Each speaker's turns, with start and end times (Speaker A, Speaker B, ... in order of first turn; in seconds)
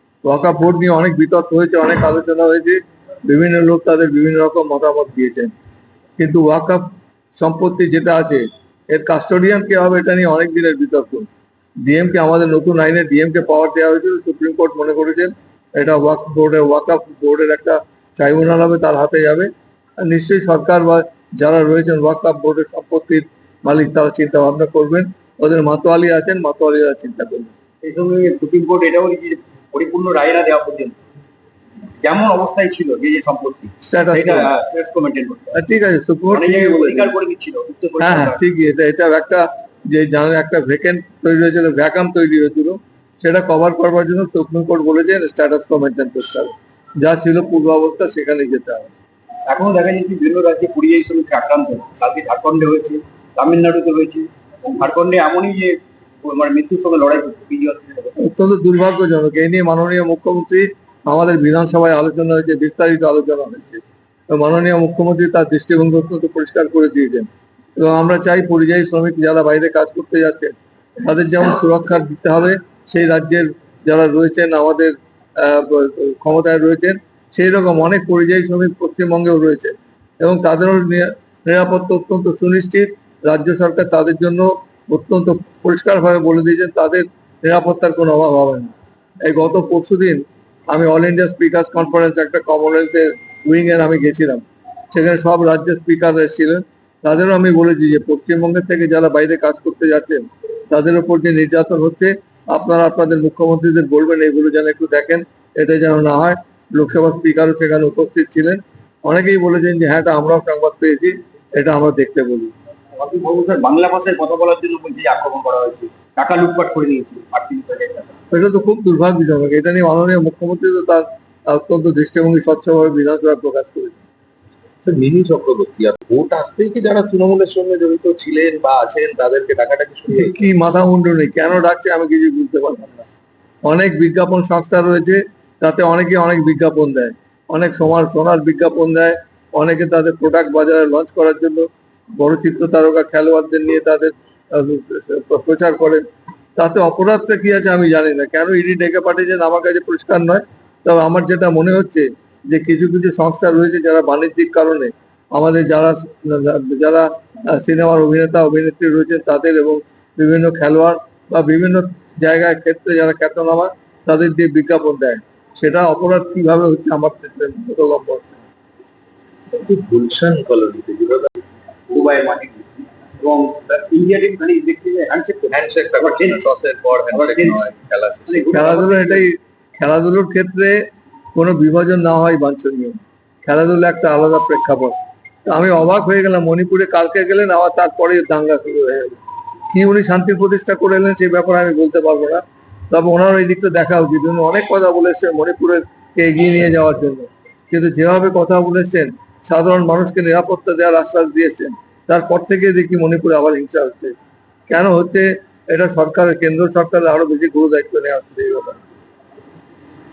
Speaker A: 0.2-5.5, 6.2-11.3, 11.8-27.5, 33.8-34.5, 35.5-37.1, 38.0-48.9, 58.2-112.5, 118.3-124.0, 130.1-133.1, 133.6-146.0, 146.6-168.4, 178.5-204.1, 204.7-208.8
Speaker B: 27.8-31.0, 32.0-35.5, 36.3-38.4, 49.5-58.1, 113.0-118.2, 171.9-176.5, 177.1-177.7, 178.3-179.2
Speaker C: 124.8-130.3, 169.5-171.3, 175.5-178.5